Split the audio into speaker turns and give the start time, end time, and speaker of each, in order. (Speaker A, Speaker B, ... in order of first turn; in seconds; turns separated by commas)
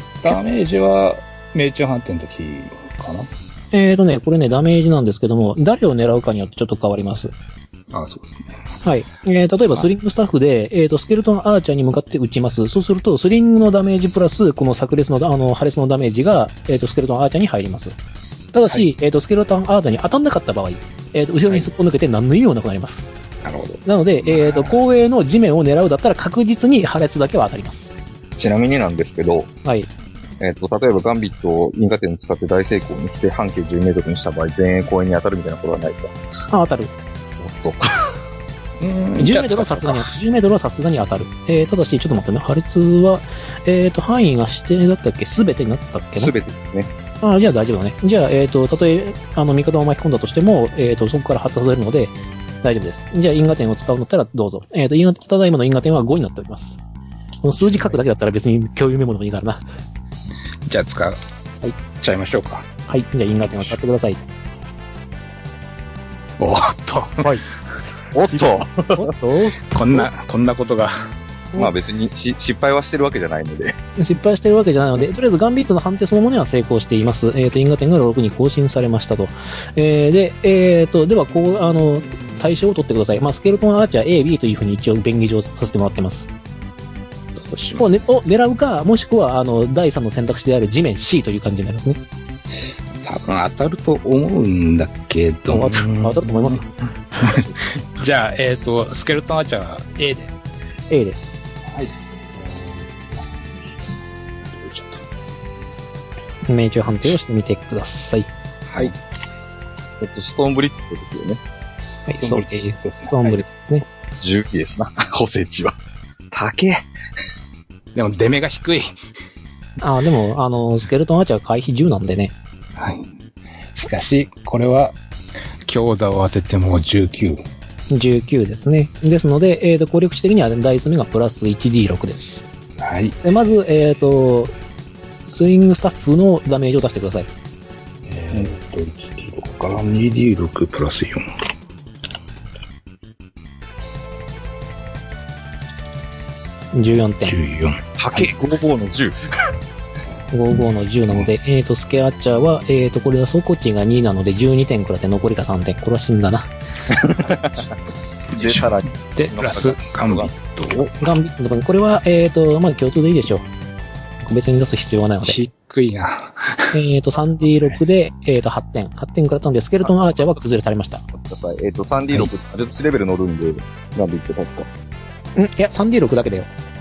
Speaker A: 0.2-3.3, Speaker B: 3.7-7.3, Speaker A: 7.9-8.6, Speaker B: 8.8-17.9, Speaker B: 18.5-23.1, Speaker A: 23.4-24.7, Speaker B: 23.9-27.9, Speaker C: 28.4-29.5, Speaker B: 29.6-29.9, Speaker C: 30.4-36.2, Speaker B: 36.5-36.9, Speaker C: 37.4-38.1, Speaker A: 38.8-40.1, Speaker B: 39.2-46.3, Speaker C: 46.2-46.9, Speaker B: 47.2-56.8, Speaker B: 57.4-59.6, Speaker A: 60.6-61.2, Speaker A: 62.0-62.7, Speaker B: 62.9-64.2, Speaker A: 66.4-67.3, Speaker C: 68.1-69.1, Speaker B: 68.3-70.0, Speaker A: 69.7-71.1, Speaker C: 71.5-73.8, Speaker B: 74.0-86.3, Speaker A: 87.3-87.8, Speaker B: 87.8-92.0, Speaker A: 93.0-96.6, Speaker B: 95.5-97.4, Speaker A: 97.2-100.3, Speaker B: 100.9-101.2, Speaker A: 101.7-103.2, Speaker A: 104.4-105.0, Speaker B: 106.5-108.3, Speaker A: 108.7-108.9, Speaker C: 110.0-111.4, Speaker B: 112.1-113.9, Speaker A: 112.2-113.4, Speaker C: 114.2-115.8, Speaker C: 116.3-116.8, Speaker A: 117.9-118.9, Speaker B: 119.8-122.3, Speaker A: 122.8-123.1, Speaker A: 123.7-125.0, Speaker A: 125.6-127.4, Speaker B: 127.9-132.4, Speaker A: 132.8-133.2, Speaker B: 133.2-134.5, Speaker B: 135.2-137.3, Speaker A: 138.0-141.2, Speaker B: 146.7-147.3, Speaker A: 147.2-148.2, Speaker C: 148.0-149.4, Speaker B: 150.3-156.5, Speaker C: 156.9-157.7, Speaker C: 158.3-160.9, Speaker A: 158.3-160.9, Speaker B: 161.0-163.4, Speaker B: 164.2-165.4, Speaker A: 165.2-166.8, Speaker B: 166.7-171.0, Speaker C: 169.8-170.2, Speaker C: 171.1-174.7, Speaker B: 175.3-176.5